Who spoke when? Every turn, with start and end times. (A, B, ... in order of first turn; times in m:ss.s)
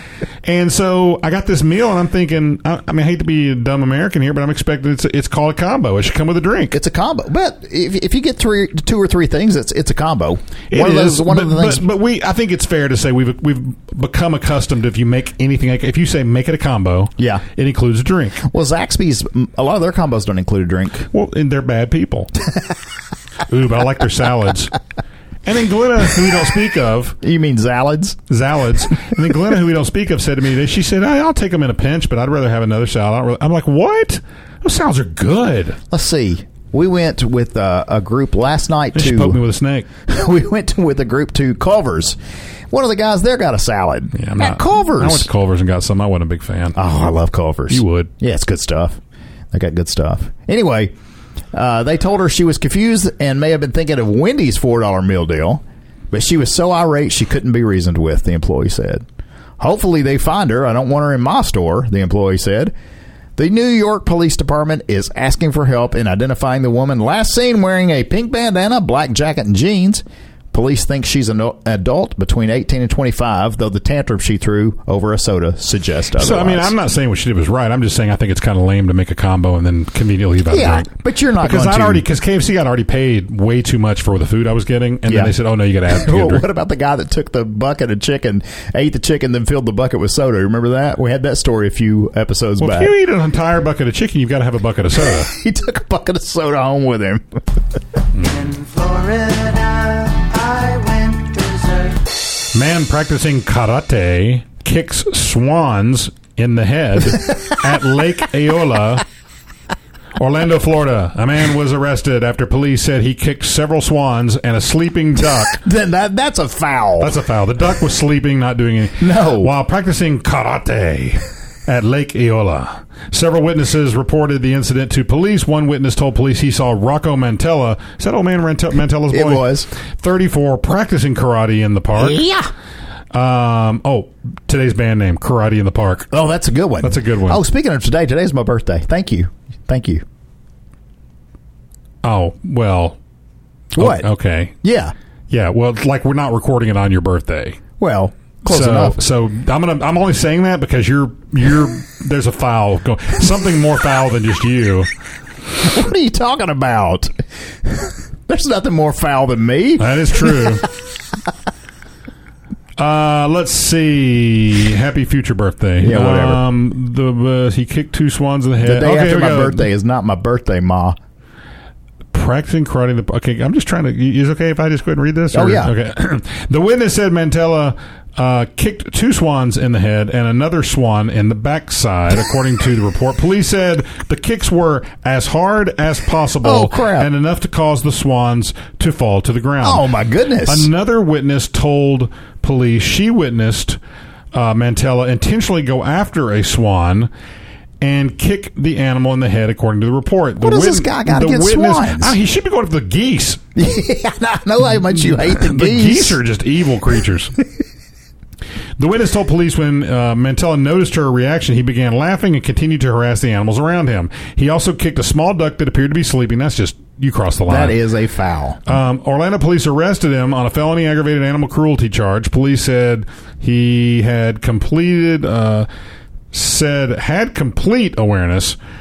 0:00.4-0:06.8 A
0:06.7-0:11.8 B
0:10.7-0:18.4 A
0:17.2-0:17.4 B
0:18.4-0:21.1 B
0:21.1-0:22.3 A
0:23.5-0:24.7 A
0:25.4-0:27.2 A
0:27.2-0:28.2 B
0:28.3-0:35.8 A
0:35.9-0:39.4 B
0:38.9-0:39.9 A
0:40.1-0:42.2 B
0:42.7-0:45.3 B
0:44.2-0:46.8 A
0:46.7-0:49.0 B
0:47.7-0:48.1 A
0:49.5-0:50.9 B
0:51.5-0:59.0 B
0:59.6-1:02.7 B
1:03.4-1:16.7 B
1:16.2-1:26.4 A
1:20.5-1:22.0 B
1:25.0-1:25.3 B
1:25.9-1:32.9 B
1:32.6-1:35.3 A
1:35.2-1:37.4 B
1:38.3-1:42.0 C
1:42.5-1:49.0 A
1:47.2-1:47.5 B
1:50.2-1:55.6 A
1:55.5-1:57.1 B
1:57.0-2:09.5 A
1:59.0-1:59.5 B
2:09.1-2:09.7 B
2:10.0-2:12.2 A
2:12.0-2:12.5 B
2:13.1-2:16.1 A
2:16.1-2:20.0 B
2:16.8-2:17.4 A
2:22.0-2:23.0 A
2:23.7-2:24.1 B
2:23.8-2:24.5 A
2:24.6-2:24.9 B
2:25.3-2:27.6 A
2:27.8-2:29.0 B
2:28.4-2:34.9 A
2:35.6-2:37.1 B
2:37.6-2:40.6 B
2:39.8-2:40.6 A
2:42.8-2:49.7 A
2:45.8-2:46.4 B
2:48.6-2:51.0 B
2:52.1-3:09.8 A
2:55.3-2:55.7 B
3:06.4-3:07.1 B
3:09.6-3:10.7 B
3:10.5-3:13.8 A
3:14.3-3:17.1 A
3:17.8-3:23.4 A
3:20.4-3:22.2 B
3:23.6-3:26.2 B
3:25.0-3:27.3 A
3:28.8-3:37.8 A
3:37.5-3:38.6 B
3:38.6-3:45.7 A
3:46.3-3:48.6 A